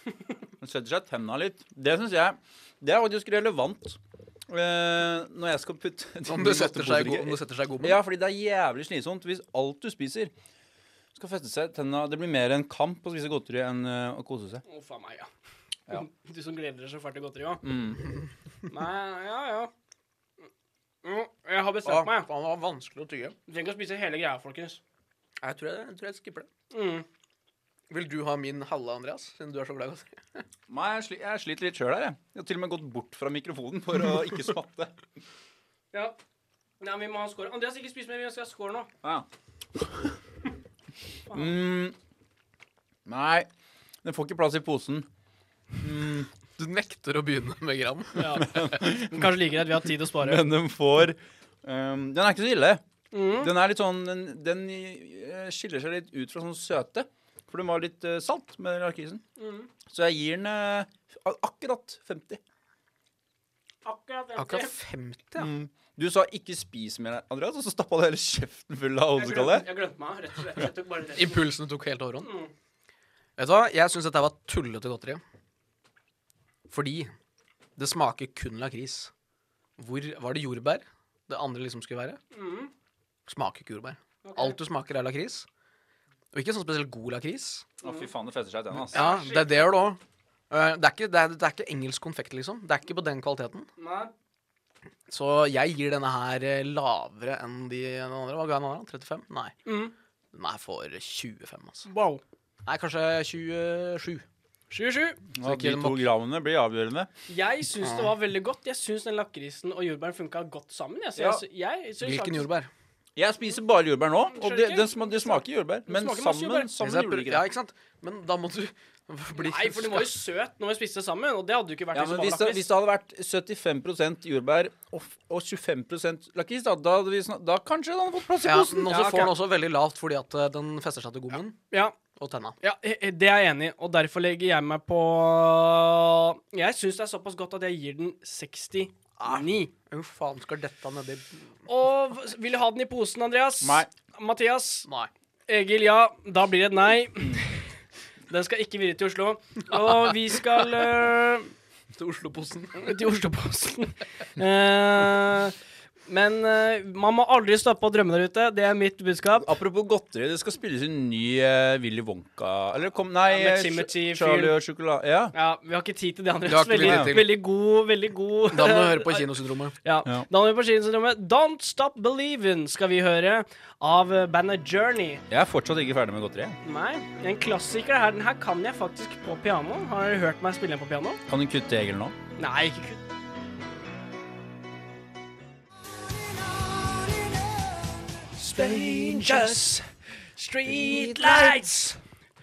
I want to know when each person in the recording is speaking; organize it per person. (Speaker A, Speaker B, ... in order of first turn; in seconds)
Speaker A: 0.6-10.3, 11.2-14.6, 17.6-18.1, 30.7-35.0, 41.3-42.0, 43.1-43.5, 44.0-45.1, 45.8-46.3, 48.4-49.3, 50.2-52.8, 53.4-59.2, 59.9-62.4, 65.4-69.7, 87.8-89.1, 105.3-107.1, 111.2-111.4, 113.2-117.5, 121.9-129.3, 143.6-143.9, 159.4-165.3, 166.8-167.2, 175.3-176.6, 181.3-182.2
Speaker B: 6.3-8.0, 21.9-23.4, 25.4-26.5, 27.9-30.4, 46.6-48.5, 64.4-65.5, 71.2-72.3, 73.4-75.2, 76.7-77.1, 77.8-79.1, 79.8-82.2, 83.3-85.5, 86.3-87.7, 88.9-90.0, 90.5-93.7, 95.1-99.6, 100.3-101.9, 102.7-104.2, 105.4-106.0, 107.8-108.1, 112.0-112.7, 116.8-120.2, 128.4-131.6, 132.1-132.6, 139.2-141.4, 151.9-153.0, 166.5-167.4, 168.5-169.7, 188.6-189.7, 190.8-191.6
Speaker C: 14.7-15.3, 15.9-17.6, 18.7-19.7, 21.0-22.3, 23.5-24.8, 26.7-27.1, 36.8-38.9, 41.3-41.5, 48.2-50.4, 53.1-53.5, 59.4-59.7, 63.9-64.8, 69.2-71.5, 72.2-72.5, 82.3-82.7, 84.2-84.6, 88.9-89.7, 93.8-94.1, 99.7-99.9, 101.9-102.2, 104.7-105.2, 107.3-112.5, 114.3-116.7, 119.4-122.7, 128.9-129.3, 132.6-139.7, 141.7-144.9, 145.5-147.7, 148.3-151.5, 152.8-155.6, 156.1-159.5, 163.2-164.6, 165.3-169.2, 169.8-175.2, 176.6-181.2, 182.4-183.0, 188.4-189.8, 190.4-192.0